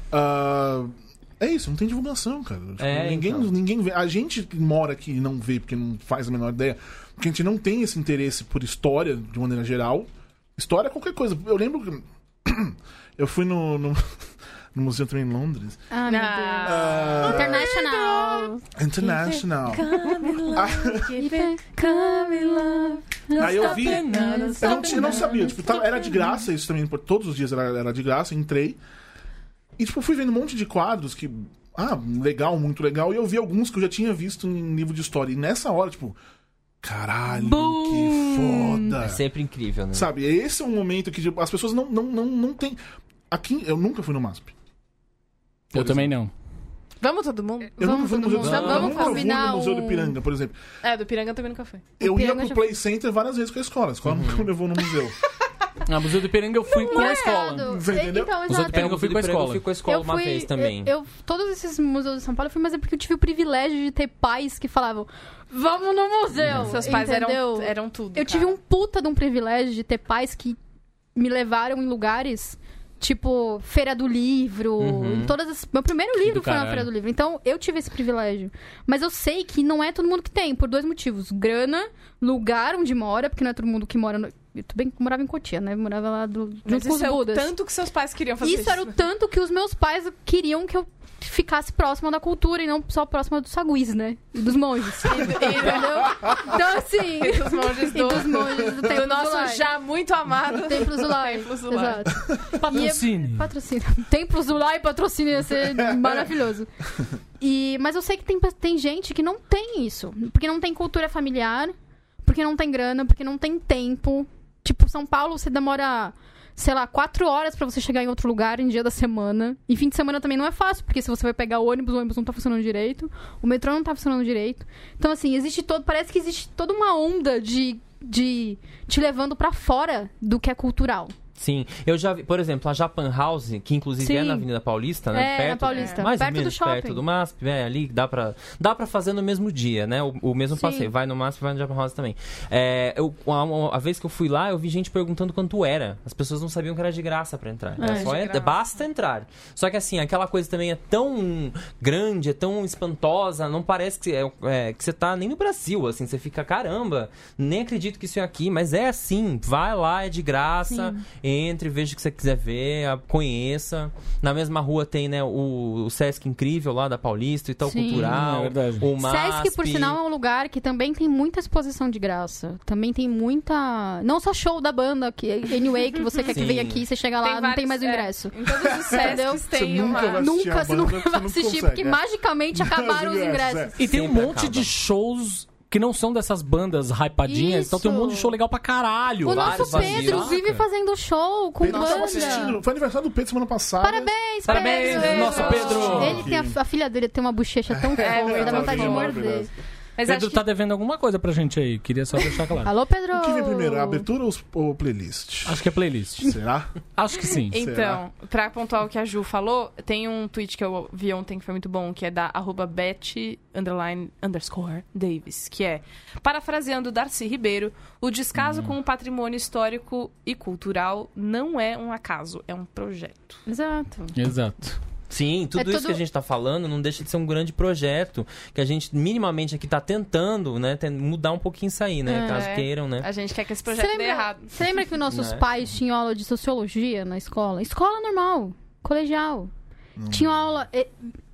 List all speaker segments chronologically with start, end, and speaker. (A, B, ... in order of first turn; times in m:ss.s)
0:00.1-0:14.2 A
0:02.8-0:03.5 B
0:14.7-0:15.8 A
0:15.9-0:18.6 C
0:16.0-0:25.6 D
0:16.6-0:17.7 A
0:18.8-0:19.9 A
0:20.5-0:21.1 A
0:21.1-0:26.4 C
0:23.4-0:28.8 A
0:23.4-0:25.2 E
0:29.8-0:36.2 A
0:36.8-0:39.2 A
0:37.3-0:38.9 C
0:39.0-0:40.1 B
0:39.9-0:42.8 A
0:43.3-0:44.5 A
0:45.7-0:46.1 A
0:45.7-0:46.3 E
0:47.0-0:49.3 D
0:47.8-0:50.2 C
0:47.8-0:50.6 A
0:48.4-0:49.0 B
0:50.8-0:51.9 D
0:52.0-0:52.7 C
0:52.0-0:55.2 A
0:54.0-0:54.5 B
0:55.8-0:57.8 E
0:56.7-0:59.0 C
0:56.9-0:57.3 D
0:57.6-0:58.4 A
0:58.5-0:59.6 E
0:58.7-1:00.9 B
0:59.8-1:10.6 C
1:06.4-1:06.7 E
1:06.5-1:08.6 D
1:11.1-1:27.5 C
1:14.8-1:15.3 B
1:16.2-1:16.9 E
1:26.6-1:29.0 D
1:28.4-1:39.6 C
1:35.0-1:36.4 D
1:37.2-1:42.1 D
1:40.5-1:46.7 C
1:42.5-1:43.5 E
1:45.6-1:46.1 A
1:47.4-2:11.1 C
2:11.4-2:50.0 B
2:14.0-2:14.5 C
2:15.1-2:17.0 C
2:15.7-2:16.0 D
2:20.5-2:20.9 C
2:27.8-2:28.2 C
2:27.8-2:28.6 D
2:40.7-2:41.0 C
2:47.6-2:48.1 C
2:47.9-2:48.8 E
2:49.0-3:03.8 C
2:56.3-2:56.8 B
2:57.2-3:00.3 D
2:58.6-3:02.0 A
3:02.5-3:03.8 A
3:03.8-3:10.6 E
3:03.8-3:04.7 B
3:07.2-3:08.3 C
3:09.2-3:12.6 C
3:09.2-3:10.4 B
3:11.6-3:14.1 A
3:11.6-3:12.5 D
3:13.8-3:19.5 C
3:14.4-3:16.2 E
3:14.5-3:16.1 D
3:15.4-3:16.6 A
3:17.7-3:19.5 A
3:18.0-3:19.3 D
3:20.0-3:20.4 D
3:20.0-3:22.7 E
3:22.6-3:24.0 C
3:23.1-3:26.7 A
3:25.4-3:26.3 E
3:27.0-3:27.6 E
3:27.5-3:43.4 D
3:27.5-3:28.0 A
3:38.4-3:38.7 B
3:43.4-3:44.2 C
3:44.2-3:44.8 E
3:45.1-3:53.1 B
3:45.6-3:46.0 C
3:52.1-3:52.5 C
3:52.2-3:54.5 D
3:53.7-3:59.5 C
3:55.1-3:55.4 B
4:00.0-4:00.4 A
4:00.1-4:00.9 C